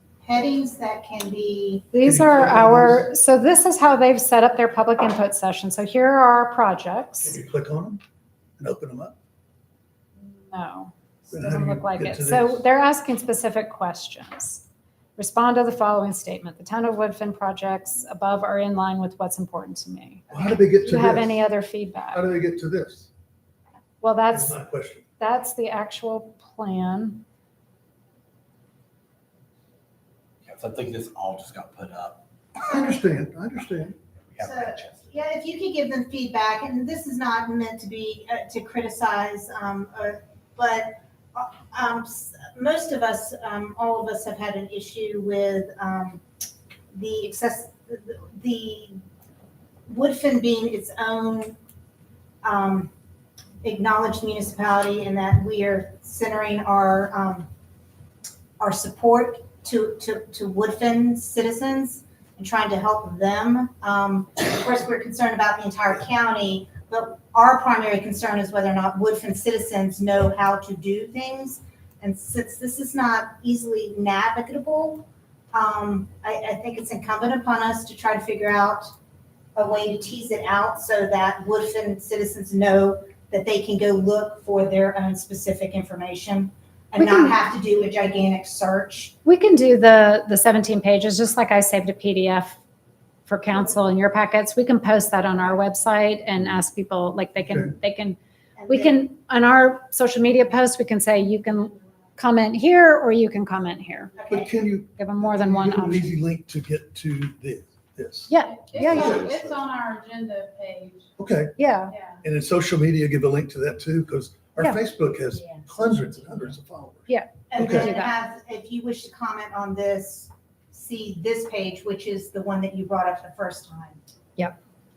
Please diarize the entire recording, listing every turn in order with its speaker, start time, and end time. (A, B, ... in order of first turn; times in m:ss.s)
0:00.2-0:01.9 A
0:01.9-0:07.4 B
0:02.0-0:03.1 C
0:07.2-0:08.0 C
0:08.6-0:09.1 C
0:10.2-0:14.6 B
0:11.3-0:12.6 C
0:15.2-0:22.2 B
0:20.3-0:21.4 C
0:22.1-0:23.1 C
0:24.0-0:24.6 B
0:24.3-0:25.0 C
0:25.2-0:27.2 B
0:30.4-0:32.2 D
0:32.6-0:34.0 C
0:34.3-0:35.1 D
0:34.4-0:46.2 A
0:46.9-0:49.0 A
0:49.9-0:51.6 A
0:52.4-0:52.9 A
0:53.6-0:57.5 A
0:58.6-1:18.9 A
1:19.6-1:29.1 A
1:27.0-1:27.4 B
1:29.2-1:32.6 B
1:33.3-1:38.2 B
1:38.6-1:39.0 A
1:38.7-1:44.1 B
1:44.1-1:44.5 A
1:44.3-1:49.6 C
1:45.0-1:46.2 B
1:48.3-1:49.3 B
1:48.5-1:51.1 E
1:51.2-1:51.6 C
1:51.6-1:51.9 B
1:51.9-1:52.2 E
1:52.2-1:57.9 C
1:57.1-1:58.2 B
1:57.5-2:04.0 A